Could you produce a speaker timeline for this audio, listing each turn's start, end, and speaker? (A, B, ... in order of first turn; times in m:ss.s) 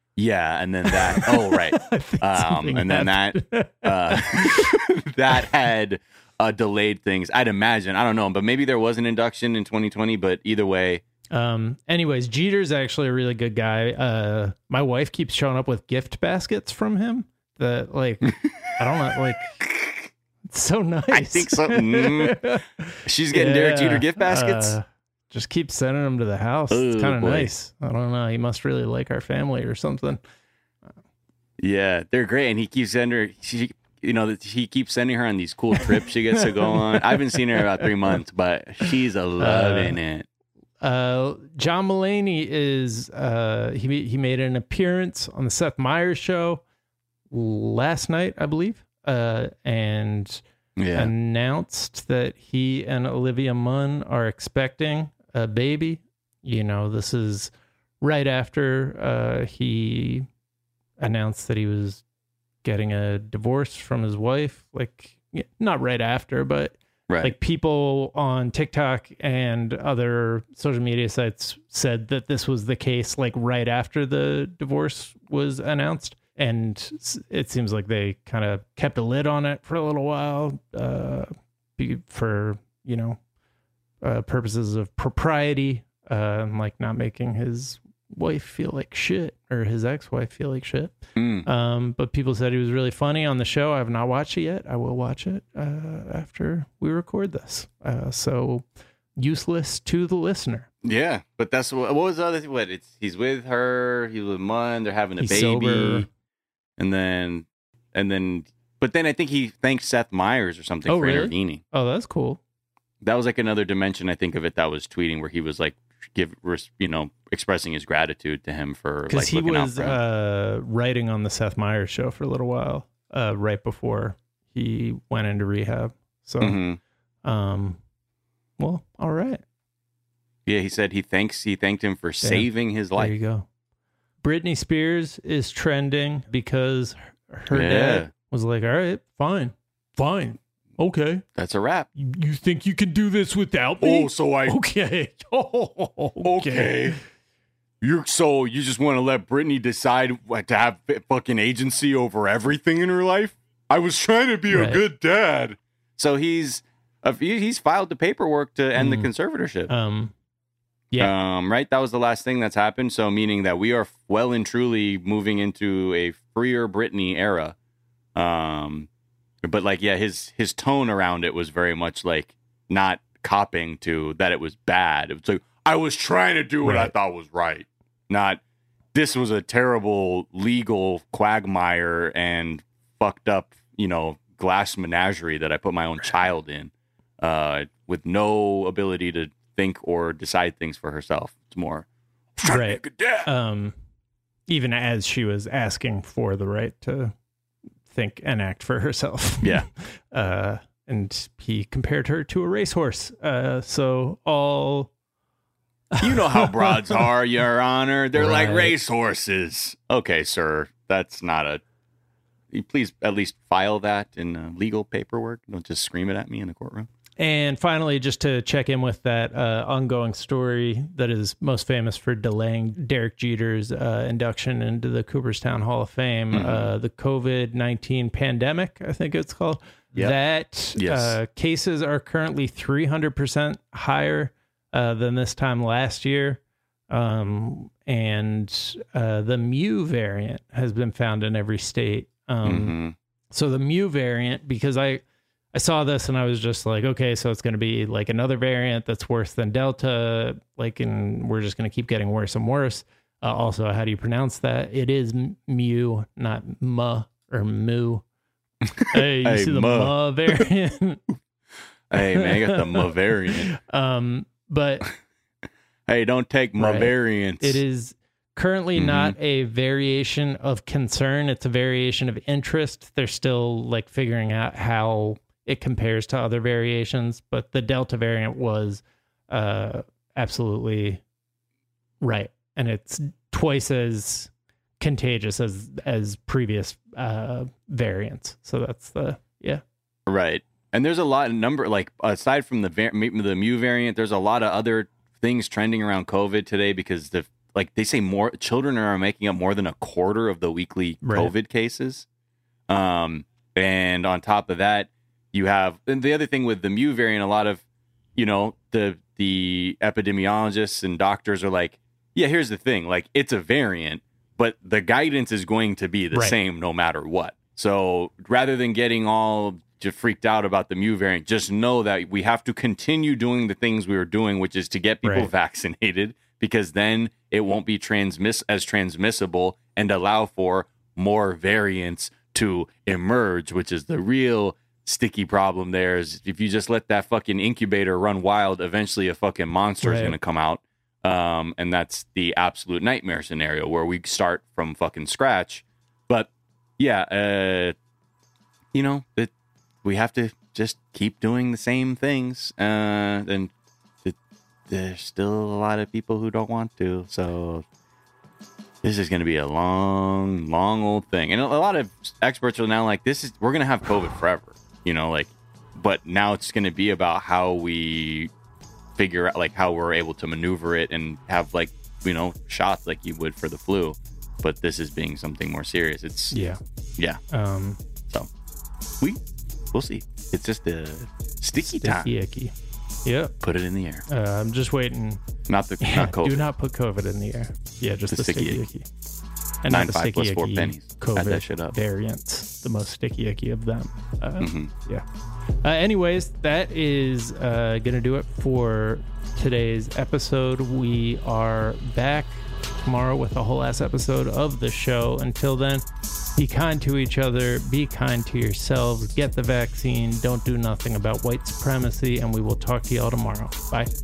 0:00.2-0:11.0 A
0:00.8-0:04.7 B
0:11.3-0:19.6 B
0:19.6-0:20.1 A
0:20.4-0:30.2 B
0:21.1-0:24.8 A
0:26.7-0:27.5 A
0:31.6-0:40.3 A
0:36.7-0:38.2 B
0:39.4-0:40.0 B
0:40.8-0:46.6 B
0:47.3-0:50.4 B
0:50.8-0:51.1 A
0:50.9-1:00.3 B
1:01.0-1:02.0 B
1:02.6-1:23.2 B
1:07.1-1:07.3 A
1:24.0-1:40.7 B
1:31.1-1:31.5 A
1:40.8-1:46.1 A
1:45.2-1:46.1 B
1:46.8-1:51.6 A
1:50.9-1:52.4 B
1:53.0-2:00.0 A
1:59.1-2:06.6 B
2:06.4-2:06.8 A
2:07.2-2:07.8 B
2:08.6-2:09.4 B
2:10.4-2:13.1 A
2:12.2-2:13.5 B
2:14.2-2:21.2 B
2:17.5-2:18.1 A
2:21.3-2:21.9 A
2:22.0-2:26.9 B
2:23.8-2:24.6 A
2:26.2-2:27.0 A
2:27.8-2:39.7 A
2:34.5-2:34.8 B
2:38.8-2:39.1 B
2:39.7-2:40.1 B
2:41.0-2:47.5 A
2:48.2-2:48.9 A
2:49.4-2:58.4 A
2:56.6-2:56.9 B
2:58.9-3:13.3 A
3:12.4-3:13.7 B
3:14.5-3:17.1 B
3:17.9-3:24.9 B
3:19.4-3:19.7 A
3:26.0-3:27.1 B
3:26.0-3:31.6 A
3:28.1-3:28.7 B
3:32.5-3:36.9 A
3:37.2-4:02.8 B
3:46.3-3:46.7 A
3:50.7-3:51.2 A
4:02.4-4:02.9 A
4:03.3-4:18.0 B
4:18.6-4:20.4 A
4:18.9-4:21.0 B
4:21.9-4:23.5 A
4:22.0-4:22.8 B
4:23.5-4:24.8 B
4:25.9-4:27.6 A
4:26.6-4:41.0 B
4:28.8-4:29.2 A
4:42.0-4:49.6 B
4:50.1-5:02.0 A
5:01.0-5:01.3 B
5:02.7-5:07.6 A
5:08.2-5:47.7 A
5:25.0-5:25.3 B
5:39.8-5:40.2 B
5:48.7-5:49.3 A
5:49.8-5:53.5 A
5:54.7-5:57.6 A
5:58.8-6:08.3 A
6:09.0-6:16.3 A
6:16.3-6:16.6 B
6:17.3-6:17.8 B
6:19.7-6:22.1 A
6:21.8-6:22.5 B
6:23.0-6:23.3 B
6:23.4-6:24.0 A
6:24.1-6:25.2 B
6:25.5-6:26.4 A
6:25.8-6:28.9 B
6:28.1-6:28.6 A
6:29.6-6:35.0 B
6:29.7-6:31.7 A
6:34.4-6:34.7 A
6:35.6-6:45.8 B
6:46.4-6:53.9 B